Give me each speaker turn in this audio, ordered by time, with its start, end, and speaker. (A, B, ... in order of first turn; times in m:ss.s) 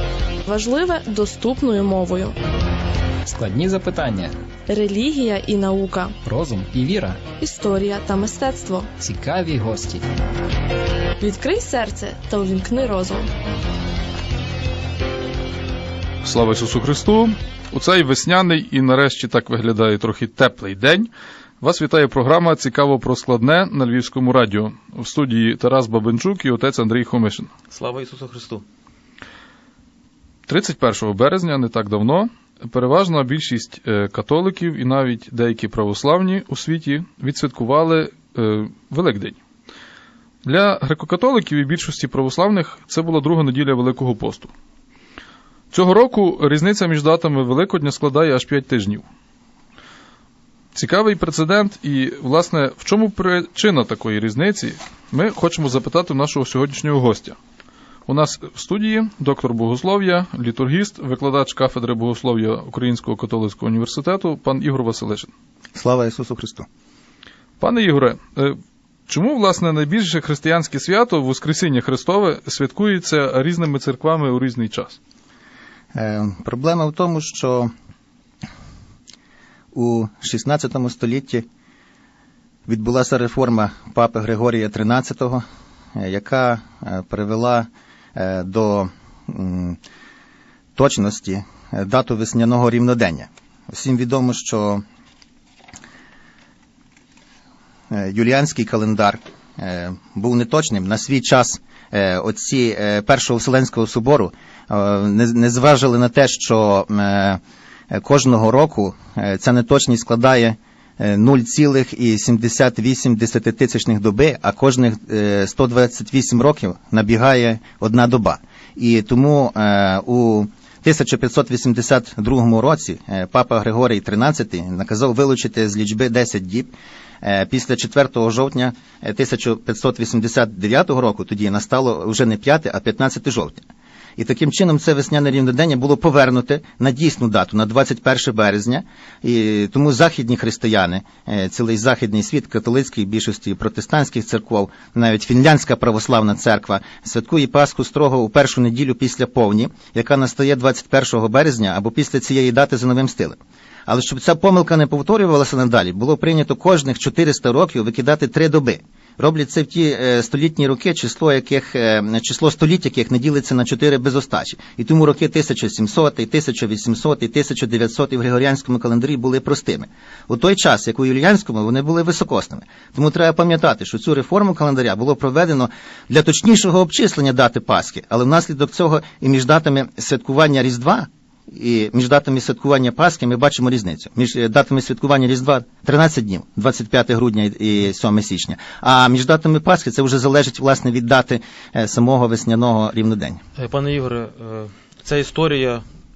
0:00.4-0:02.3 A
0:03.2-0:04.3 B
0:04.7-0:06.2 A
0:06.2-0:07.3 B
0:07.3-0:08.9 A
0:09.0-0:10.0 B
0:11.2-0:13.3 A
0:16.2-0:21.1 C
0:21.6-0:27.5 C
0:27.7-0:28.6 D
0:30.5-0:39.4 C
0:40.4-0:44.5 C
0:45.7-0:49.0 C
0:50.7-0:57.4 C
0:58.1-1:05.3 C
1:05.7-1:06.7 E
1:07.6-1:15.0 C
1:15.9-1:17.7 E
1:19.7-1:21.4 E
1:22.7-1:25.4 E
1:26.0-1:29.8 E
1:30.8-1:34.8 E
1:37.9-1:47.4 E
1:47.9-2:13.6 E
2:14.2-3:13.4 E
3:13.6-3:15.8 D